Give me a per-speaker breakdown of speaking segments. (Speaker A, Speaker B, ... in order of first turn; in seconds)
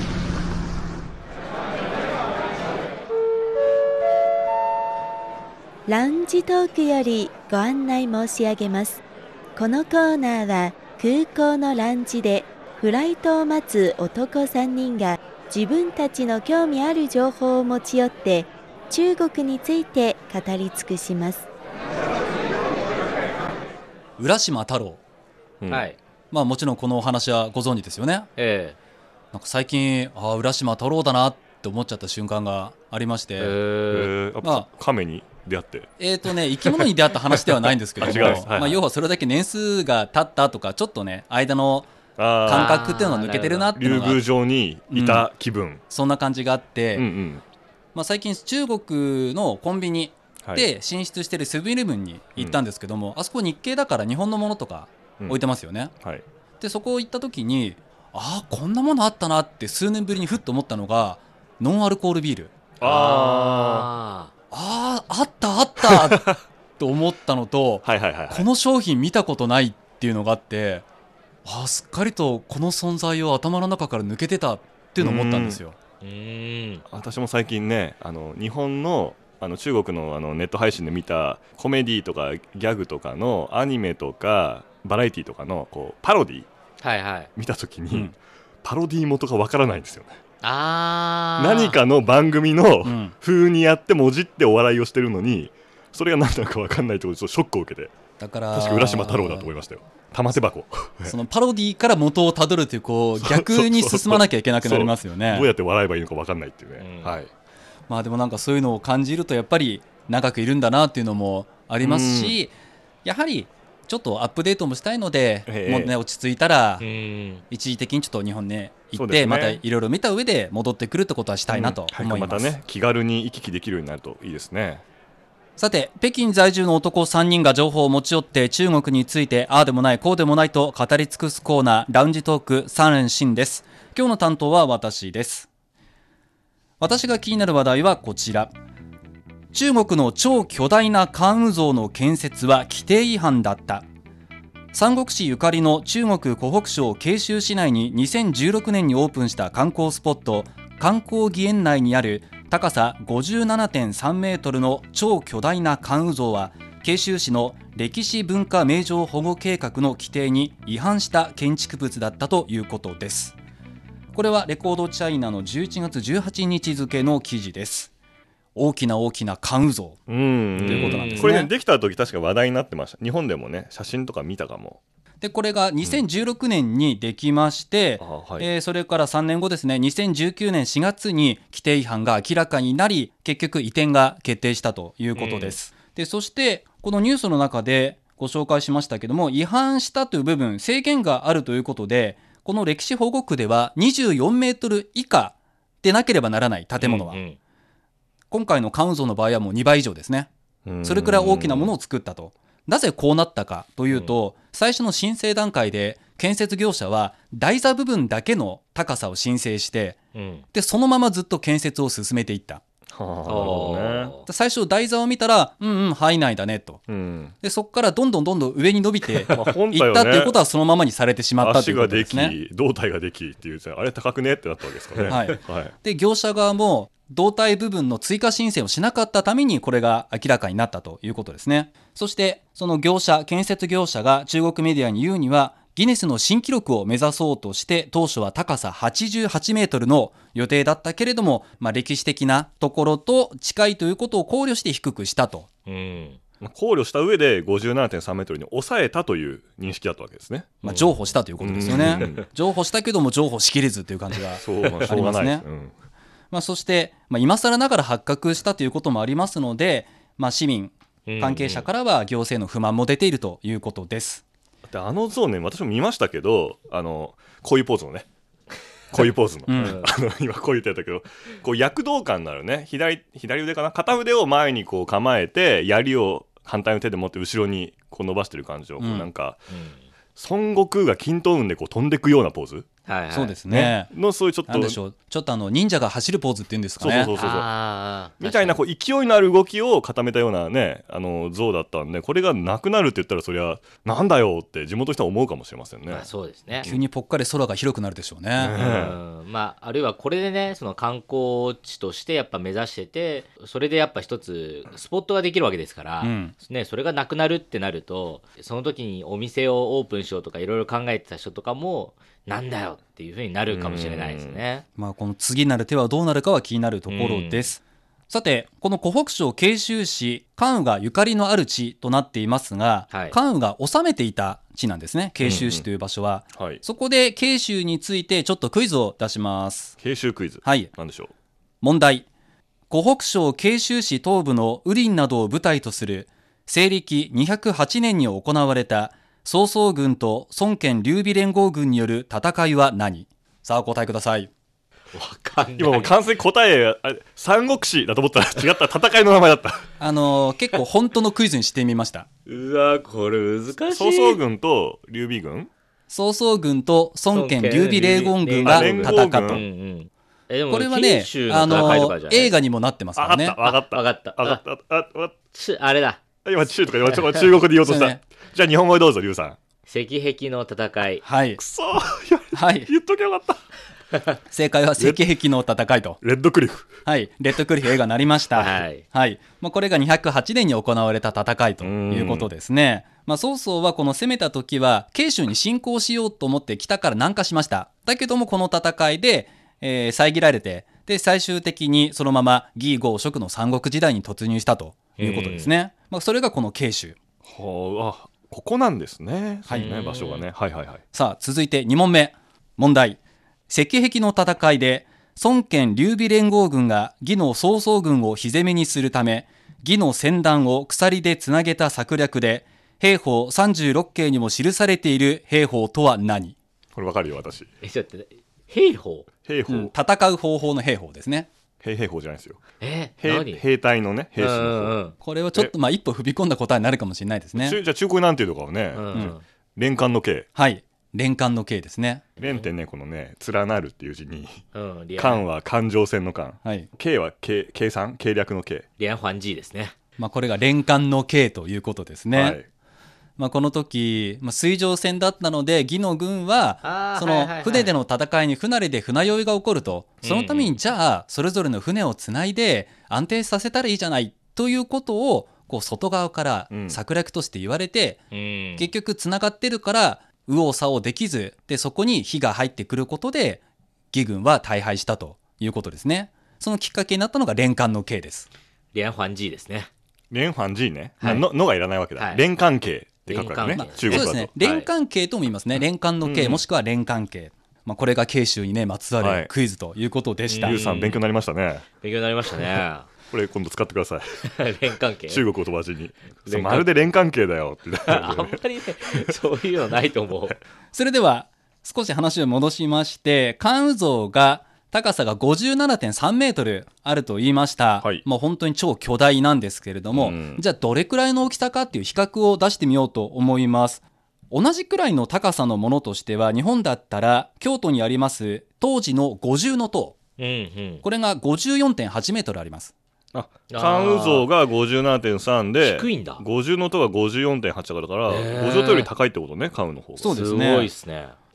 Speaker A: 5.9-9.0, 9.6-21.5
Speaker B: 24.2-25.0, 26.3-28.3, 29.3-33.6, 36.0-41.9, 42.4-44.2, 44.9-45.3, 45.9-47.1, 48.0-55.9, 56.6-62.5, 64.5-66.3, 66.8-70.9, 71.5-75.8, 92.8-93.2, 98.2-99.5, 101.1-105.5, 107.9-112.5, 113.0-116.8, 117.5-122.5, 125.6-135.5, 136.8-138.5, 139.5-143.8, 144.7-163.4, 164.1-167.9, 168.6-170.0, 170.6-171.5, 175.2-197.2, 198.3-200.3, 200.8-210.0, 210.5-212.6, 214.3-216.9, 217.4-222.4, 225.0-245.5, 250.7-255.4, 256.3-264.2, 269.5-269.8, 278.8-279.1, 283.1-283.9, 284.5-287.1, 296.6-298.6, 306.0-306.4, 314.8-329.7, 330.4-330.7, 331.6-332.1, 332.7-344.3, 349.8-352.1, 355.9-359.4, 360.5-363.4, 367.6-368.0, 371.0-371.4, 372.3-372.7, 374.3-376.0, 376.9-397.0, 399.5-399.8, 400.9-416.4, 419.5-421.3, 425.0-427.6, 430.4-432.1, 440.0-442.4, 443.2-458.0, 458.6-468.3, 473.5-480.6, 490.7-510.0, 510.8-512.7, 520.0-520.7
Speaker C: 25.7-26.0, 28.4-28.8, 33.4-34.1, 38.0-38.4, 42.5-43.7, 62.8-64.3, 76.0-76.8, 86.8-87.3, 90.4-91.8, 106.8-107.2, 116.8-117.4, 170.6-171.4, 196.8-197.4, 210.2-210.4, 213.3-214.3, 245.7-246.2, 250.6-251.0, 251.7-252.2, 261.1-261.7, 279.5-279.8, 282.9-283.4, 287.2-288.6, 295.9-296.7, 298.6-314.6, 316.9-317.5, 322.9-323.2, 344.9-345.9, 352.3-354.2, 357.1-362.3, 363.5-364.4, 365.3-366.0, 369.7-371.0, 378.3-378.8, 395.0-395.5, 399.5-400.2, 417.6-419.1, 422.6-423.4, 424.2-424.9, 428.8-429.2, 432.2-432.5, 434.5-435.2, 438.8-439.7, 446.6-447.7, 450.0-450.6, 458.1-458.7, 468.7-469.7, 471.0-471.3, 472.0-472.2, 473.1-474.7, 480.3-481.0, 481.8-482.9, 484.2-485.2, 486.3-486.7, 487.9-490.4, 510.2-510.8, 513.5-514.3, 515.6-516.2, 518.1-518.9, 520.0-521.1
Speaker D: 33.9-35.9, 38.0-38.8, 42.2-42.8, 43.7-45.8, 47.0-47.4, 50.4-50.7, 62.8-63.9, 65.9-66.4, 67.8-68.5, 75.0-75.6, 76.9-86.5, 87.4-90.2, 91.4-97.9, 98.5-101.2, 103.2-107.3, 111.8-112.4, 115.5-115.9, 119.0-119.6, 121.5-124.8, 170.1-174.8, 178.0-178.5, 185.2-185.6, 200.7-201.7, 212.9-214.1, 216.9-217.3, 219.3-220.4, 221.4-225.7, 246.4-250.6, 251.4-252.2, 254.4-255.7, 264.7-268.1, 268.9-279.4, 280.2-282.7, 283.5-284.8, 286.8-287.5, 288.2-296.1, 298.4-299.0, 313.5-314.4, 325.3-325.5, 326.3-326.6, 329.8-331.1, 345.6-349.7, 353.7-355.5, 358.4-359.4, 361.5-361.8, 363.0-365.1, 366.2-369.4, 371.4-373.4, 374.8-375.1, 376.0-376.8, 381.6-382.3, 397.2-400.8, 416.8-417.5, 419.3-419.7, 421.6-422.4, 423.0-424.8, 427.4-430.3, 432.2-434.4, 435.0-438.7, 442.1-442.5, 456.5-456.8, 470.1-474.3, 476.0-476.4, 479.0-479.3, 480.4-481.7, 483.1-484.3, 485.1-488.4, 499.9-500.4, 513.1-520.3